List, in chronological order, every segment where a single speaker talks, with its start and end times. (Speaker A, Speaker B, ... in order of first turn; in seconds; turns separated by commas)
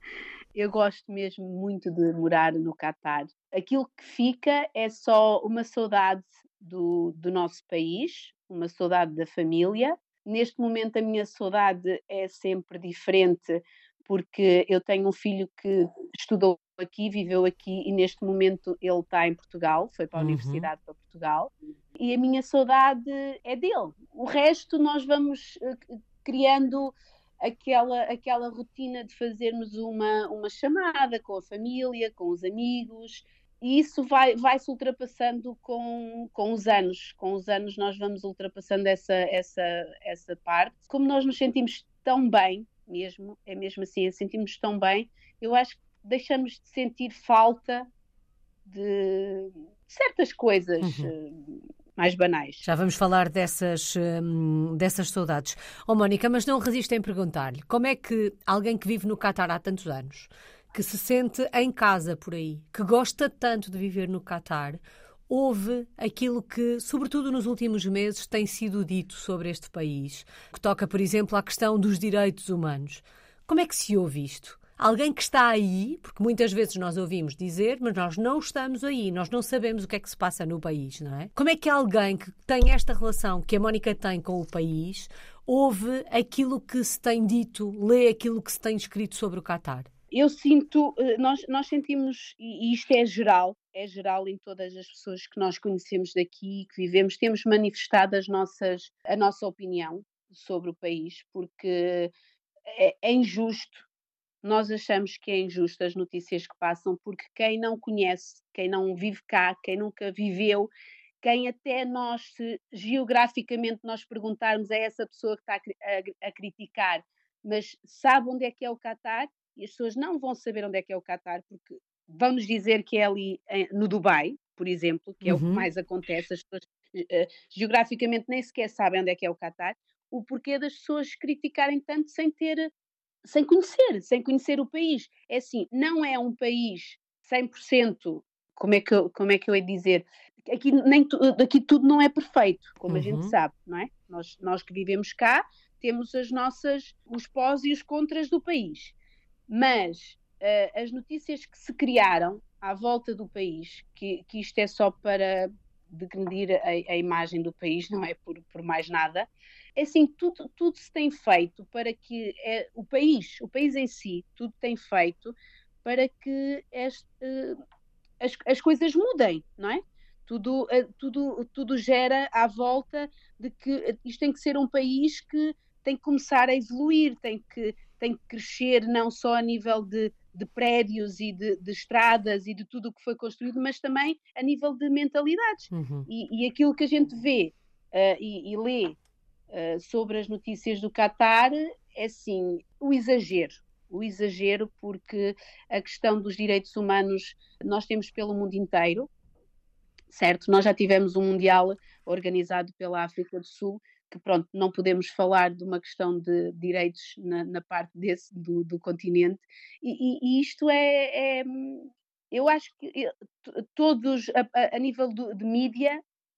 Speaker A: 0.5-47.9, Speaker B: 20.1-20.7, Speaker A: 48.6-52.6, Speaker B: 50.8-51.1, Speaker B: 52.6-89.9, Speaker A: 90.1-102.1, Speaker A: 102.7-103.9, Speaker A: 104.4-110.7, Speaker A: 111.2-132.7, Speaker B: 125.2-125.7, Speaker A: 133.2-148.9, Speaker B: 142.9-143.3, Speaker A: 149.5-167.6, Speaker A: 168.2-189.0, Speaker B: 185.7-186.1, Speaker A: 189.5-199.1, Speaker A: 200.1-216.0